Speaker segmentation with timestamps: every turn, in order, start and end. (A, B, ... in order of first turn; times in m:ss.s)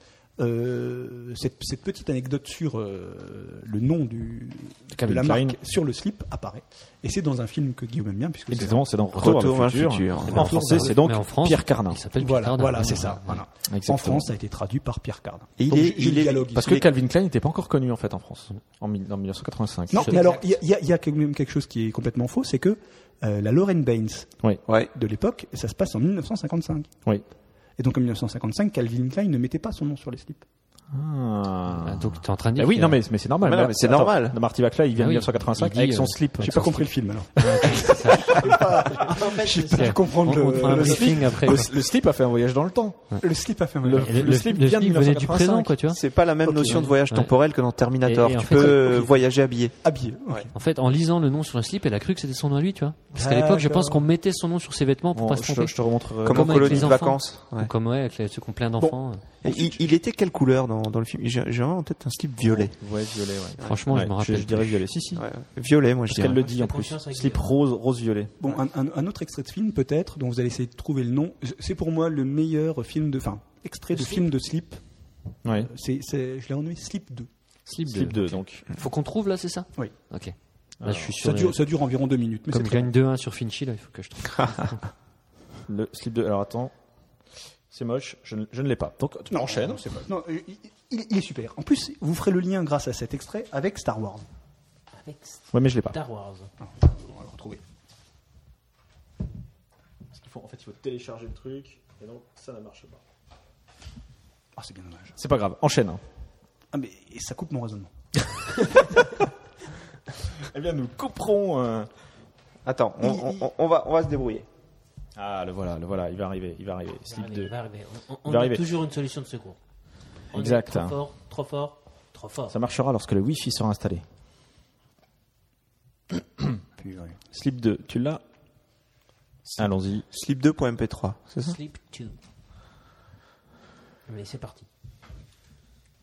0:00.4-0:09.0 A
0:04.9-0:05.6 B
0:08.5-0:12.0 B
0:09.1-0:10.9 C
0:10.2-0:13.4 D
0:10.5-0:10.9 A
0:12.2-0:16.8 A
0:13.7-0:14.3 B
0:15.6-0:16.8 C
0:16.5-0:20.3 B
0:19.9-0:26.9 A
0:20.0-0:20.5 E
0:27.8-0:30.4 A
0:30.9-0:36.8 B
0:31.8-0:33.0 D
0:33.4-0:34.4 C
0:35.0-0:39.0 D
0:36.5-0:41.6 A
0:39.0-0:40.0 E
0:39.7-0:41.7 D
0:40.6-0:43.1 B
0:43.2-0:44.6 A
0:43.8-0:45.8 B
0:43.9-0:46.0 D
0:45.9-0:50.5 C
0:46.4-0:46.9 A
0:46.7-0:49.2 D
0:49.8-0:50.5 A
0:50.5-0:59.3 D
0:53.1-0:54.0 A
0:55.1-0:57.0 B
0:56.2-0:57.7 C
0:58.8-0:59.9 A
0:59.4-1:02.8 C
1:02.4-1:05.3 B
1:03.6-1:04.0 C
1:03.6-1:04.8 D
1:05.2-1:06.4 C
1:06.1-1:08.3 B
1:06.4-1:07.5 E
1:08.4-1:14.8 A
1:13.9-1:14.2 E
1:15.5-1:17.3 A
1:17.7-1:21.6 D
1:17.8-1:18.6 B
1:20.8-1:21.1 B
1:21.2-1:22.9 A
1:22.5-1:24.8 D
1:25.7-1:26.7 B
1:27.7-1:30.0 B
1:29.3-1:34.3 A
1:34.9-1:36.5 E
1:35.5-1:36.0 B
1:36.6-1:37.6 A
1:40.1-1:43.0 B
1:44.6-1:45.2 A
1:45.2-1:46.0 B
1:46.7-1:47.9 A
1:50.4-1:51.9 B
1:52.6-1:54.5 C
1:53.0-1:53.4 A
1:55.2-1:57.5 B
1:57.1-1:59.6 E
1:58.2-1:58.8 B
2:00.3-2:02.6 E
2:00.3-2:01.0 B
2:02.5-2:04.0 B
2:06.8-2:07.2 A
2:07.3-2:08.2 B
2:09.5-2:10.1 B
2:10.1-2:11.6 C
2:11.4-2:12.2 E
2:14.1-2:14.7 E